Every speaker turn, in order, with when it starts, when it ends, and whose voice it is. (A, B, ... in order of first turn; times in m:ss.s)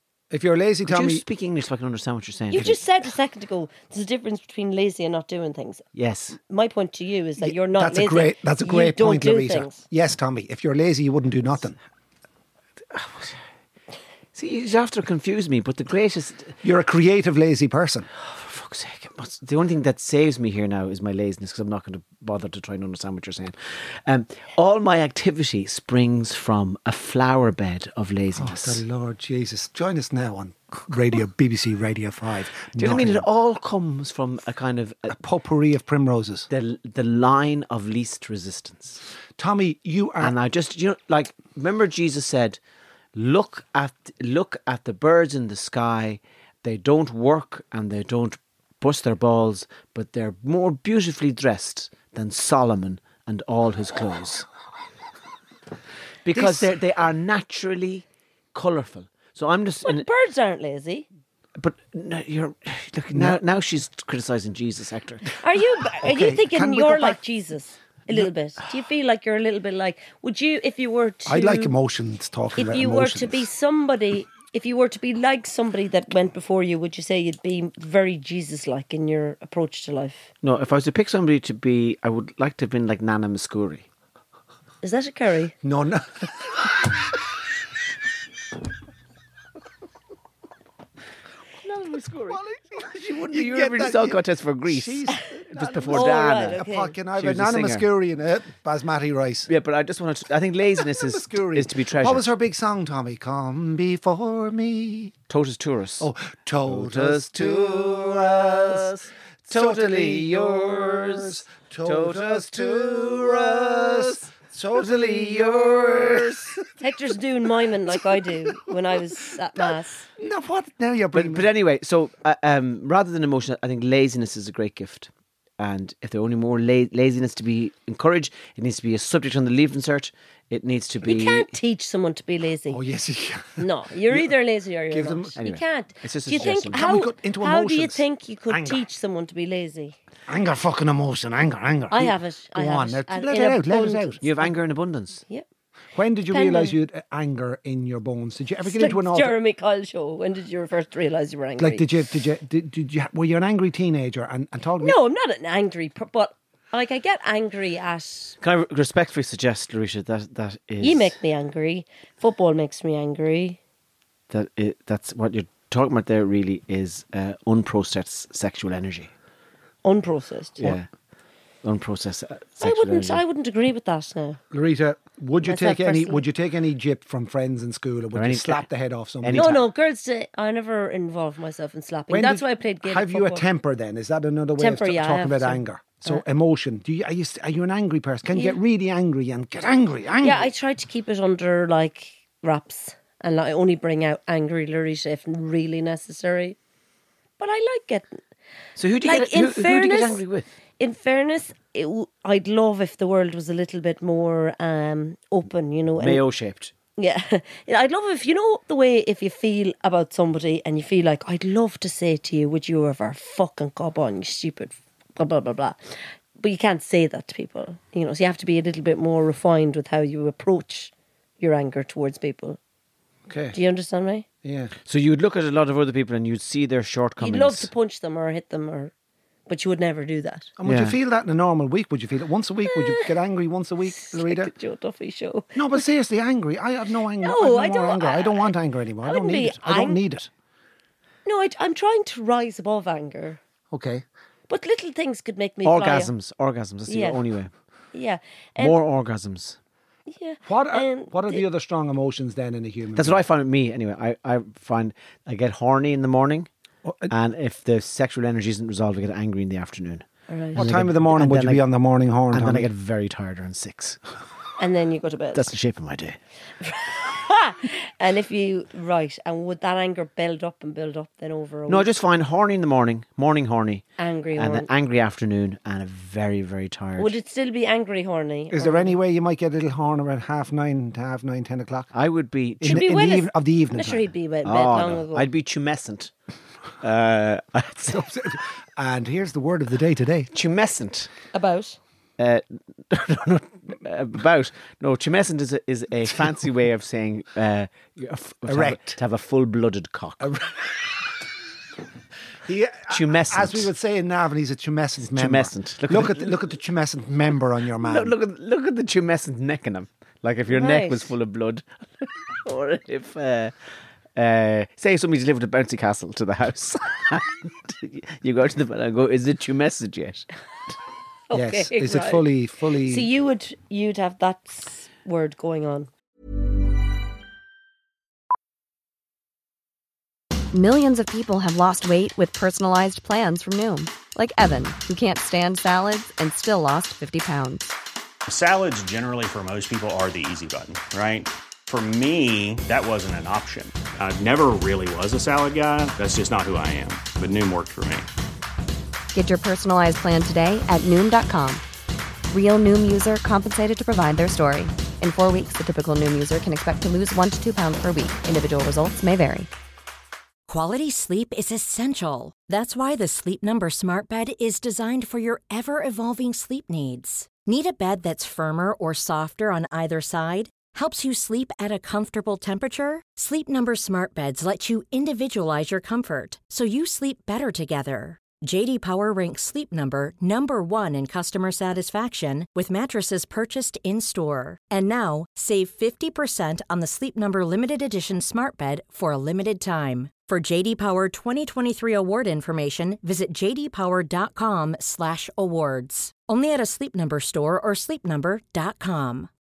0:00.3-0:01.2 A
0:00.9-0:02.8 B
0:02.5-0:05.8 C
0:05.9-0:06.4 B
0:06.4-0:09.8 C
0:07.4-0:11.8 A
0:12.9-0:13.4 B
0:14.3-0:16.6 B
0:16.6-0:18.1 A
0:18.2-0:28.8 B
0:28.4-0:33.2 A
0:32.7-0:35.1 B
0:35.1-0:36.5 A
0:36.5-0:39.0 B
0:39.4-0:40.4 A
0:40.2-0:42.6 B
0:43.1-0:54.5 B
0:56.2-1:00.1 B
0:56.3-0:56.7 A
0:59.8-1:01.0 C
1:01.6-1:05.3 B
1:03.1-1:03.4 A
1:05.4-1:11.7 C
1:06.0-1:07.2 A
1:11.2-1:13.5 A
1:12.6-1:20.3 C
1:20.4-1:23.8 B
1:24.8-1:25.5 C
1:25.6-1:27.0 A
1:31.6-1:36.6 B
1:32.3-1:39.5 A
1:35.9-1:36.9 C
1:37.2-1:37.8 B
1:39.5-1:42.3 B
1:40.7-1:45.1 A
1:45.3-1:46.1 B
1:46.0-1:56.6 A
1:46.7-1:56.6 B
1:56.8-2:00.1 C
1:58.1-1:58.9 A
1:59.5-2:01.5 A
2:01.1-2:11.5 B
2:11.0-2:12.8 C
2:12.7-2:14.3 A
2:13.6-2:20.0 C
2:14.9-2:15.4 A
2:15.4-2:16.8 B
2:16.7-2:18.8 A
2:20.3-2:24.2 A
2:21.9-2:24.2 C
2:24.2-2:25.2 B
2:25.9-2:29.4 A
2:26.3-2:26.8 C
2:28.6-2:31.9 C
2:31.6-2:35.0 A
2:34.8-2:38.4 C
2:38.4-2:41.2 B
2:40.8-2:43.6 C
2:44.3-2:49.1 B
2:49.8-2:50.7 C
2:50.6-2:50.8 B
2:51.6-2:53.2 B
2:52.6-2:54.4 C
2:54.5-2:59.6 A
2:55.4-2:56.2 C
2:58.1-2:58.6 B
2:59.2-2:59.6 B
2:59.4-3:03.4 C
3:02.1-3:10.5 A
3:04.6-3:06.2 C
3:10.2-3:16.6 C
3:17.4-3:18.2 C
3:18.8-3:20.5 B
3:19.0-3:20.2 C
3:20.8-3:26.2 C
3:26.0-3:26.7 B
3:27.0-3:42.6 C
3:43.3-3:43.6 A
3:43.5-3:44.2 C
3:44.4-3:44.7 A
3:44.8-3:47.7 B
3:47.2-3:48.9 C
3:49.5-3:50.5 C
3:50.6-3:54.5 A
3:50.6-3:51.0 B
3:52.6-3:53.1 C
3:53.9-3:55.8 C
3:55.5-4:00.3 A
3:57.2-4:00.0 C
4:01.2-4:03.4 C
4:03.7-4:04.0 A
4:04.5-4:06.1 C
4:05.6-4:07.5 B
4:06.9-4:07.2 C
4:07.9-4:08.8 C
4:08.6-4:09.6 B
4:10.1-4:11.4 C
4:10.4-4:13.2 A
4:12.9-4:16.5 B
4:16.8-4:17.1 A
4:17.1-4:21.6 B
4:20.3-4:20.6 C
4:20.6-4:22.7 A
4:22.3-4:24.0 B
4:24.6-4:25.5 C
4:25.3-4:26.2 B
4:26.6-4:31.9 C
4:31.7-4:37.2 B
4:34.0-4:34.7 C
4:37.0-4:39.0 C
4:38.5-4:41.9 A
4:41.9-4:42.9 B
4:42.6-4:44.0 A
4:42.6-4:45.3 C
4:44.4-4:46.1 B
4:46.8-4:48.1 B
4:47.9-4:50.3 A
4:50.3-4:51.1 B
4:51.3-4:51.8 C
4:52.2-5:00.3 B
4:58.5-4:59.0 A
5:00.2-5:00.7 A
5:02.4-5:08.2 A
5:02.9-5:03.7 B
5:05.0-5:06.4 B
5:07.8-5:13.5 B
5:10.5-5:11.1 C
5:14.2-5:20.3 B
5:21.3-5:22.3 C
5:21.3-5:23.1 A
5:22.8-5:25.9 C
5:30.5-5:37.7 D
5:38.3-5:48.1 E
5:49.1-5:51.6 D
5:52.3-5:59.5 D
6:00.5-6:39.3 F